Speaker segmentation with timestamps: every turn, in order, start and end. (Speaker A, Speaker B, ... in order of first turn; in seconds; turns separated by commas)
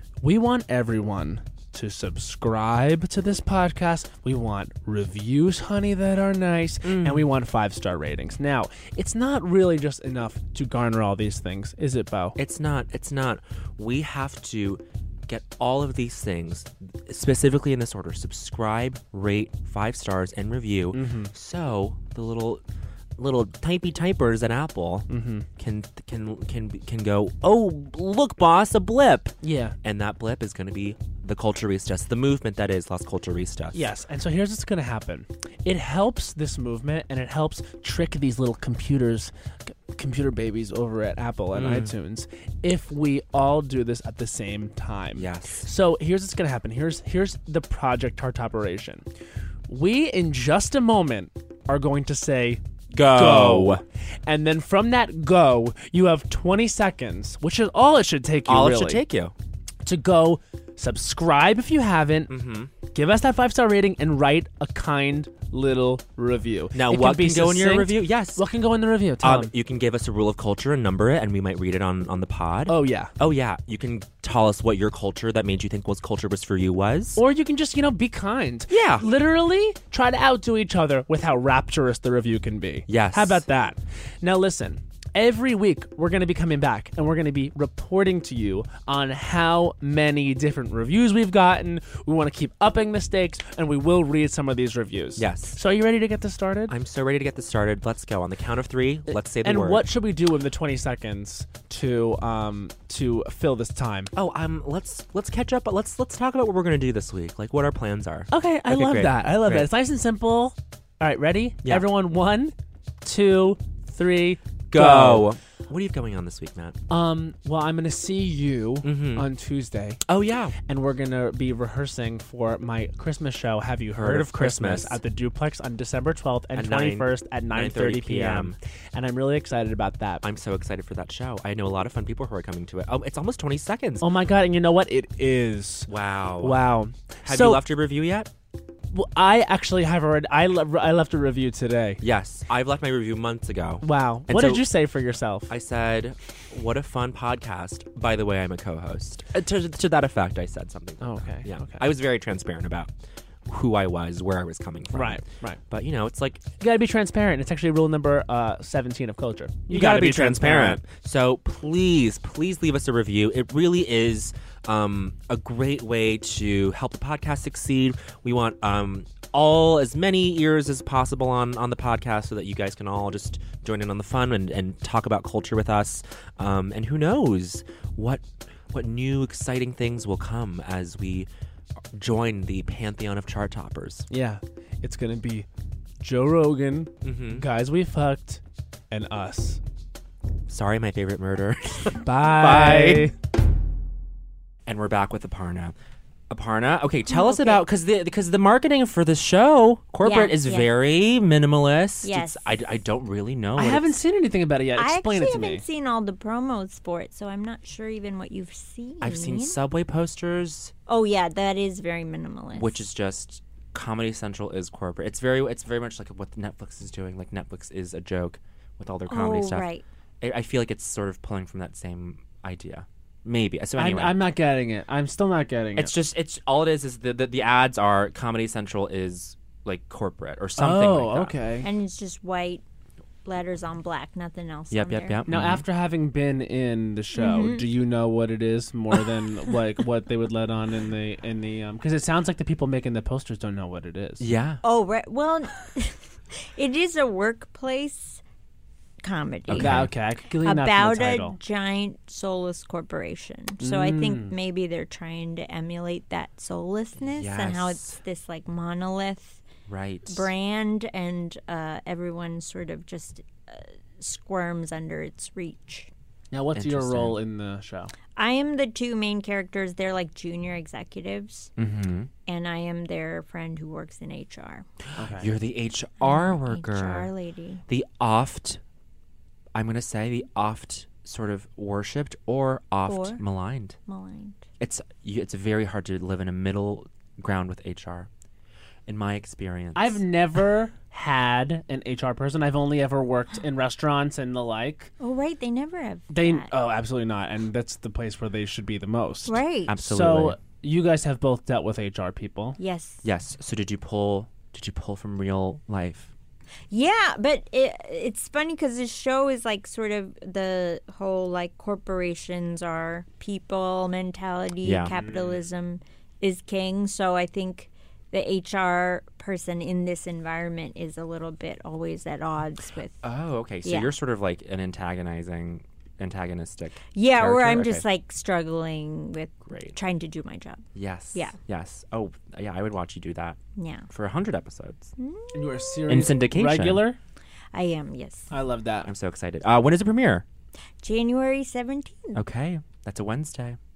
Speaker A: 0.2-12.4, Speaker B: 6.8-7.3, Speaker B: 12.4-22.6, Speaker A: 20.9-21.3, Speaker B: 23.2-33.9, Speaker A: 25.1-25.5, Speaker A: 29.4-29.8, Speaker A: 33.7-49.0, Speaker B: 41.5-41.9, Speaker B: 45.1-45.7, Speaker A: 49.7-59.0, Speaker B: 52.9-53.8, Speaker B: 58.5-59.3, Speaker A: 59.8-62.3, Speaker B: 62.3-62.7, Speaker A: 62.9-69.5, Speaker B: 66.7-68.4, Speaker B: 69.2-77.2, Speaker A: 72.7-73.1, Speaker A: 77.2-96.7, Speaker B: 78.7-79.0, Speaker B: 82.9-83.4, Speaker B: 95.2-95.6, Speaker B: 96.7-99.8, Speaker A: 99.1-104.1, Speaker B: 104.2-109.7, Speaker A: 108.3-115.3, Speaker B: 114.7-116.8, Speaker A: 116.9-120.0, Speaker B: 118.8-119.3, Speaker B: 120.0-120.6, Speaker A: 120.7-130.2, Speaker B: 123.9-125.0, Speaker B: 126.5-128.6, Speaker B: 130.2-134.1, Speaker A: 134.0-137.6, Speaker B: 135.9-136.6, Speaker B: 137.2-138.3, Speaker A: 138.9-142.0, Speaker B: 142.0-144.7, Speaker A: 143.8-145.5, Speaker B: 145.5-152.9, Speaker A: 151.0-151.8, Speaker B: 153.5-156.4, Speaker A: 154.9-155.6, Speaker A: 156.6-160.8, Speaker B: 159.7-181.3, Speaker B: 181.9-184.1, Speaker A: 184.1-185.5, Speaker A: 186.0-189.6, Speaker B: 187.0-187.5, Speaker B: 190.5-193.1, Speaker A: 192.0-193.2, Speaker B: 194.7-195.8, Speaker B: 196.3-204.0, Speaker C: 197.1-197.6, Speaker C: 200.0-200.7, Speaker C: 202.0-202.6, Speaker A: 203.6-205.6, Speaker C: 204.8-209.6, Speaker B: 209.0-210.7, Speaker C: 210.9-212.8, Speaker B: 212.5-219.7, Speaker C: 219.1-219.8, Speaker B: 220.2-224.2, Speaker A: 223.8-225.9, Speaker B: 225.8-231.4, Speaker A: 230.6-231.7, Speaker C: 231.6-232.6, Speaker C: 233.2-235.2, Speaker B: 234.7-235.7, Speaker A: 235.3-244.3, Speaker C: 237.2-237.7, Speaker B: 244.2-244.6, Speaker C: 244.6-248.2, Speaker C: 249.0-249.8, Speaker B: 249.5-249.9, Speaker A: 249.6-251.4, Speaker C: 250.4-259.4, Speaker A: 253.6-254.3, Speaker B: 257.1-258.0, Speaker B: 259.7-260.3, Speaker C: 260.1-265.9, Speaker A: 266.3-267.9, Speaker B: 266.6-267.2, Speaker C: 268.2-271.5, Speaker B: 271.6-272.1, Speaker C: 272.3-274.7, Speaker A: 275.0-275.3, Speaker B: 275.0-277.1, Speaker C: 276.0-277.6, Speaker B: 277.7-278.6, Speaker B: 279.5-283.8, Speaker C: 282.9-283.2, Speaker C: 283.9-284.4, Speaker B: 284.6-288.1, Speaker B: 288.9-290.0, Speaker A: 289.8-294.9, Speaker C: 295.0-296.5, Speaker A: 296.1-302.6, Speaker C: 299.3-299.7, Speaker B: 299.7-300.4, Speaker C: 302.6-303.0, Speaker B: 303.0-306.1, Speaker C: 306.7-323.0, Speaker B: 314.6-315.0, Speaker A: 314.9-315.4, Speaker B: 323.0-327.8, Speaker C: 323.6-323.9, Speaker C: 326.9-331.4, Speaker B: 329.5-329.8, Speaker B: 330.8-333.4, Speaker C: 333.6-333.9, Speaker B: 333.9-334.9, Speaker C: 335.0-335.9, Speaker A: 335.3-337.0, Speaker B: 335.9-336.8, Speaker C: 337.5-338.3, Speaker A: 338.3-338.9, Speaker B: 338.8-340.2, Speaker C: 340.8-342.2, Speaker B: 342.1-343.6